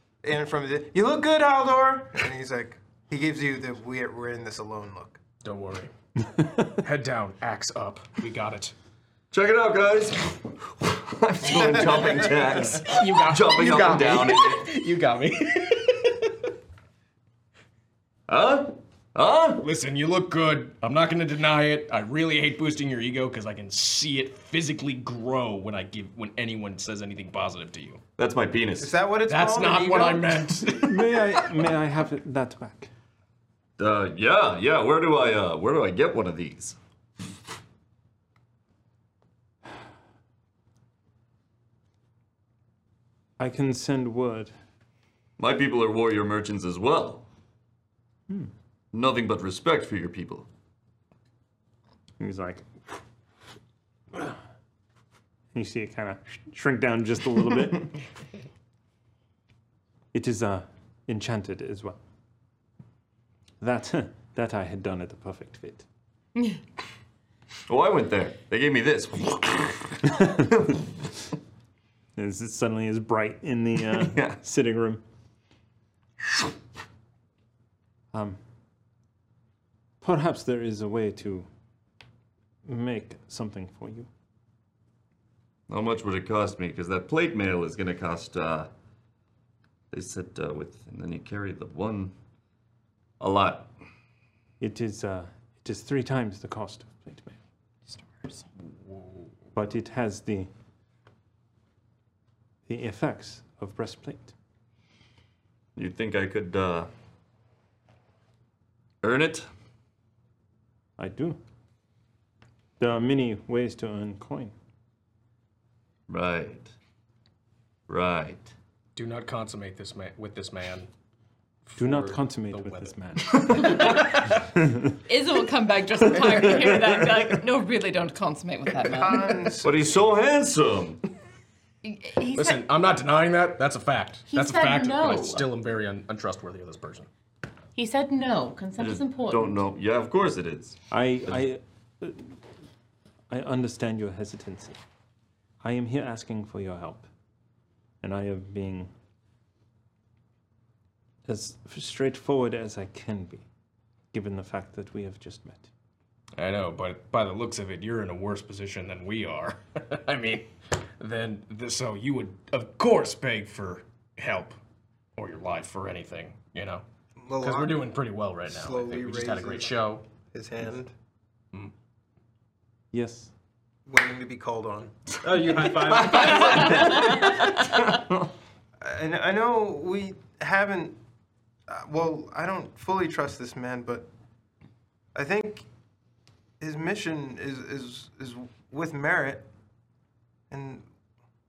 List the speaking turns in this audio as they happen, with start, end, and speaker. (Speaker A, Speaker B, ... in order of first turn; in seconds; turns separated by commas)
Speaker A: 0.2-5.2, Speaker B: 5.4-5.9, Speaker B: 6.7-8.8, Speaker C: 9.3-14.7, Speaker A: 11.6-12.6, Speaker B: 12.7-16.4, Speaker C: 18.3-19.6, Speaker B: 19.6-28.0, Speaker C: 28.2-28.9, Speaker A: 28.8-30.5, Speaker B: 29.3-31.6, Speaker D: 30.8-32.9, Speaker C: 33.8-36.8, Speaker D: 43.4-44.5, Speaker C: 45.4-47.2, Speaker C: 48.9-50.5, Speaker D: 52.2-53.0, Speaker D: 55.5-58.0, Speaker D: 60.1-62.0, Speaker D: 63.6-65.8, Speaker C: 67.7-70.8, Speaker D: 70.0-70.7, Speaker D: 72.2-75.0, Speaker C: 74.0-74.4, Speaker D: 78.1-78.4, Speaker D: 80.0-81.5, Speaker D: 82.7-84.1, Speaker C: 85.7-88.7, Speaker C: 89.9-92.1, Speaker C: 93.2-93.7, Speaker D: 94.6-97.4, Speaker E: 97.9-98.4, Speaker D: 99.5-100.5, Speaker D: 102.7-104.3, Speaker C: 105.8-106.9, Speaker C: 109.0-109.5, Speaker D: 111.0-111.4, Speaker D: 112.8-114.5, Speaker C: 116.1-116.7, Speaker C: 117.9-118.5, Speaker B: 119.0-120.9, Speaker B: 121.7-124.4, Speaker D: 121.8-125.0, Speaker E: 123.6-124.1, Speaker E: 125.0-129.3, Speaker D: 126.5-126.9, Speaker A: 128.9-130.0, Speaker C: 129.6-131.0, Speaker E: 131.8-132.6, Speaker B: 132.4-137.1, Speaker E: 134.3-135.5, Speaker E: 137.8-139.6, Speaker C: 138.8-140.8, Speaker D: 140.9-142.4, Speaker D: 143.3-144.8, Speaker D: 145.6-147.1, Speaker D: 148.0-148.9, Speaker D: 151.3-153.4, Speaker D: 154.1-155.7, Speaker B: 156.4-164.6, Speaker B: 165.2-166.8, Speaker A: 167.2-167.8, Speaker B: 167.4-170.1, Speaker A: 168.5-169.7, Speaker A: 170.3-170.9, Speaker D: 172.9-173.3, Speaker A: 173.9-177.5, Speaker C: 175.8-178.1, Speaker A: 178.8-181.0, Speaker A: 181.7-184.1, Speaker A: 185.2-185.7, Speaker A: 186.6-189.5, Speaker A: 190.5-190.8